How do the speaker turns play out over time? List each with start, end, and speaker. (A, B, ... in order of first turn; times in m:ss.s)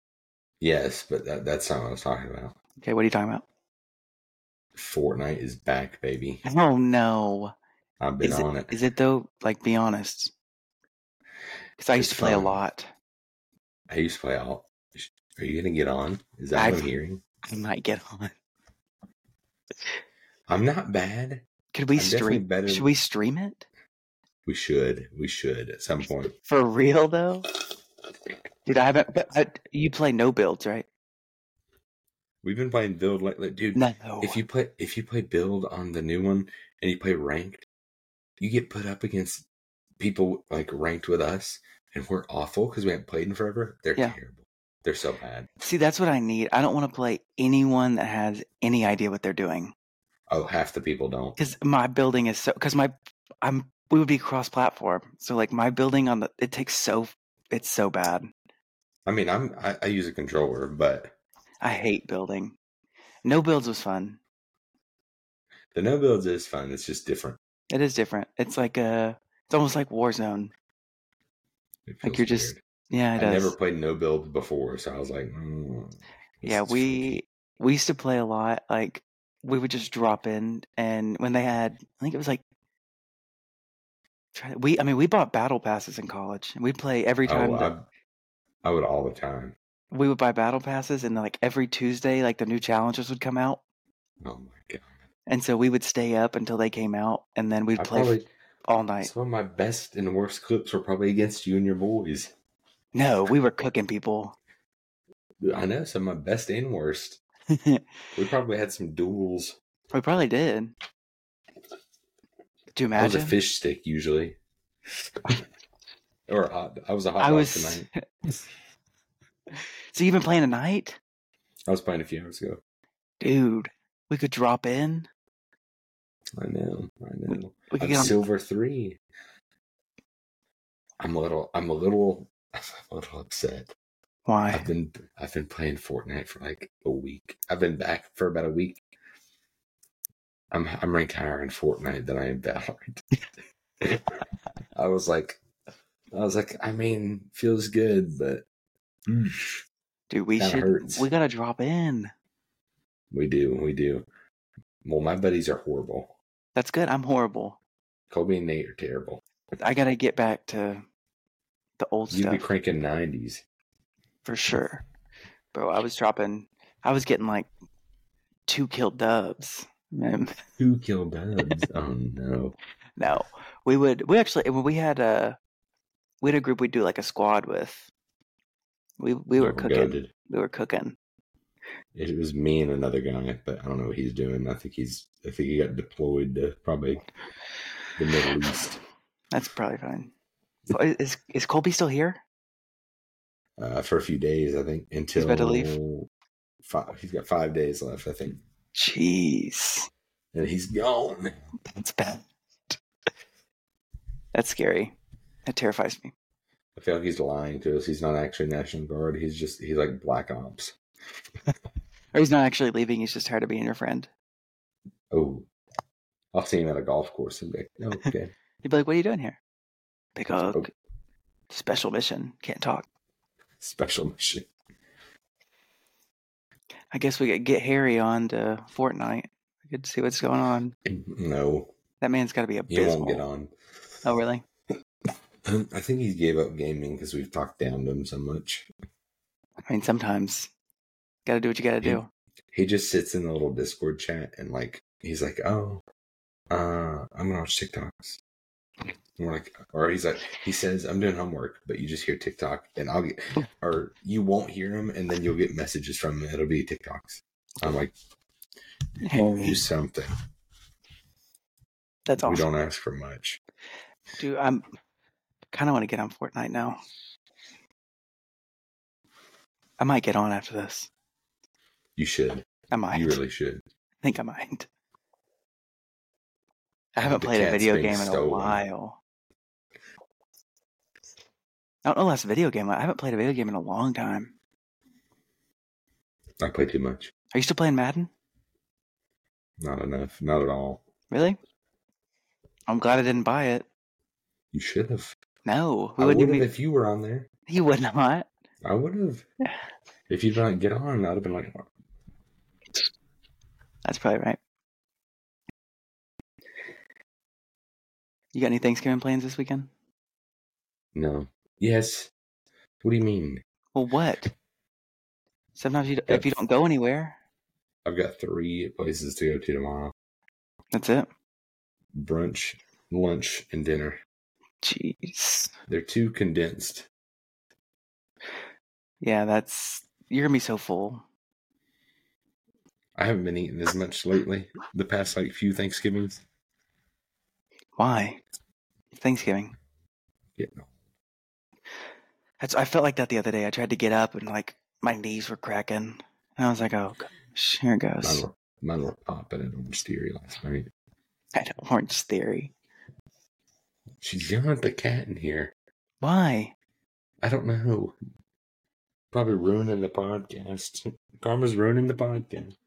0:00.6-0:02.6 A
0:02.8-0:03.4 B
0:04.8-0:06.4 A
0:06.4-0:07.5 B
0:08.0-0:08.8 A
0:08.2-0:10.3 B
0:11.8-0:12.9 B
0:12.0-0:12.6 A
0:13.9-0:17.2 A
0:16.5-0:16.9 B
0:17.4-0:18.3 B
0:20.5-0:22.9 A
0:21.7-0:23.6 B
0:24.4-0:26.4 A
0:26.5-0:27.5 B
0:28.7-0:30.9 B
0:32.4-0:37.6 A
0:33.8-0:34.4 B
0:38.4-0:39.4 A
0:40.0-0:45.5 A
0:45.6-0:49.8 B
0:50.3-0:51.4 A
0:51.4-0:58.3 B
0:59.1-1:01.2 A
1:01.6-1:02.6 B
1:03.2-1:04.2 B
1:05.7-1:07.4 A
1:07.7-1:10.5 B
1:11.9-1:12.6 A
1:12.0-1:13.6 B
1:13.2-1:17.2 A
1:16.4-1:22.4 B
1:24.3-1:27.7 B
1:27.2-1:27.9 A
1:28.6-1:29.6 A
1:29.9-1:33.6 B
1:34.2-1:34.9 A
1:35.3-1:38.1 B
1:37.8-1:38.3 A
1:38.7-1:39.1 B
1:39.0-1:42.3 A
1:42.9-1:44.4 B
1:45.4-1:47.2 A
1:47.5-1:47.8 B
1:48.1-1:49.6 A
1:49.9-1:50.8 B
1:52.7-1:53.4 B
1:53.0-1:54.4 A
1:56.3-1:57.9 A
1:57.2-1:58.4 B
1:59.5-2:01.0 B
2:01.7-2:02.6 A
2:03.2-2:05.1 B
2:06.4-2:09.0 A
2:07.3-2:08.2 B
2:11.0-2:13.7 A
2:14.3-2:14.7 B
2:14.5-2:18.8 A
2:20.5-2:23.0 A
2:23.8-2:24.2 A
2:24.7-2:25.4 A
2:26.1-2:28.4 A
2:29.1-2:29.6 A
2:30.1-2:32.1 B
2:30.4-2:31.1 A
2:33.1-2:34.1 A
2:34.8-2:36.2 A
2:36.6-2:37.6 B
2:38.1-2:39.2 A
2:39.6-2:40.8 B
2:41.8-2:42.4 B
2:42.1-2:43.4 A
2:44.2-2:44.8 B
2:45.5-2:47.5 B
2:48.5-2:50.4 B
2:50.6-2:52.6 A
2:53.0-2:55.4 B
2:56.2-2:57.9 B
2:59.0-3:01.0 B
2:59.4-3:00.1 A
3:02.0-3:07.0 A
3:08.0-3:08.8 A
3:09.3-3:10.1 B
3:10.7-3:12.2 B
3:13.6-3:16.1 A
3:15.2-3:15.7 B
3:16.6-3:18.4 A
3:18.7-3:19.9 B
3:20.3-3:21.4 A
3:21.6-3:22.8 B
3:24.3-3:26.1 B
3:26.8-3:30.8 A
3:32.1-3:34.1 B
3:35.1-3:35.5 A
3:36.3-3:38.3 A
3:38.6-3:39.4 B
3:40.2-3:40.7 B
3:40.3-3:40.7 A
3:41.5-3:42.9 B
3:43.6-3:44.5 A
3:46.9-3:50.7 B
3:50.9-3:51.7 A
3:52.0-3:53.2 B
3:52.7-3:53.5 A
3:54.0-3:54.4 B
3:55.5-3:58.7 A
3:59.7-4:00.5 B
4:01.3-4:02.1 B
4:01.8-4:05.8 A
4:06.5-4:08.2 A
4:09.2-4:17.9 A
4:19.0-4:19.6 B
4:19.0-4:20.1 A
4:22.1-4:22.5 B
4:22.2-4:23.4 A
4:24.2-4:24.6 B
4:25.5-4:26.8 B
4:29.8-4:30.9 B
4:32.0-4:33.6 A
4:32.7-4:33.2 B
4:34.0-4:34.7 B
4:37.0-4:39.0 B
4:37.0-4:38.6 A
4:41.8-4:44.3 B
4:46.4-4:47.1 A
4:47.3-4:48.1 B
4:49.6-4:50.8 A
4:51.1-4:51.4 B
4:52.7-4:53.7 B
4:54.5-4:55.2 A
4:55.4-4:56.5 B
4:56.0-4:57.3 A
4:57.5-4:58.3 B
4:58.6-4:59.3 A
5:00.1-5:01.7 A
5:03.8-5:04.4 B
5:08.3-5:09.7 B
5:11.0-5:12.1 A
5:12.8-5:13.4 A
5:13.7-5:14.3 B
5:15.6-5:17.2 B
5:16.1-5:16.4 A
5:17.8-5:19.9 A
5:20.7-5:21.1 B
5:21.9-5:24.0 A
5:24.6-5:25.5 B
5:25.7-5:26.9 A
5:29.0-5:31.0 B
5:33.0-5:36.2 A
5:37.8-5:38.2 B
5:39.0-5:39.6 B
5:40.4-5:40.7 A
5:42.4-5:48.2 B
5:48.0-5:50.7 A
5:51.3-5:52.5 B
5:54.0-5:55.5 A
5:56.0-5:56.5 B
5:57.2-5:58.0 A
5:59.1-6:02.5 A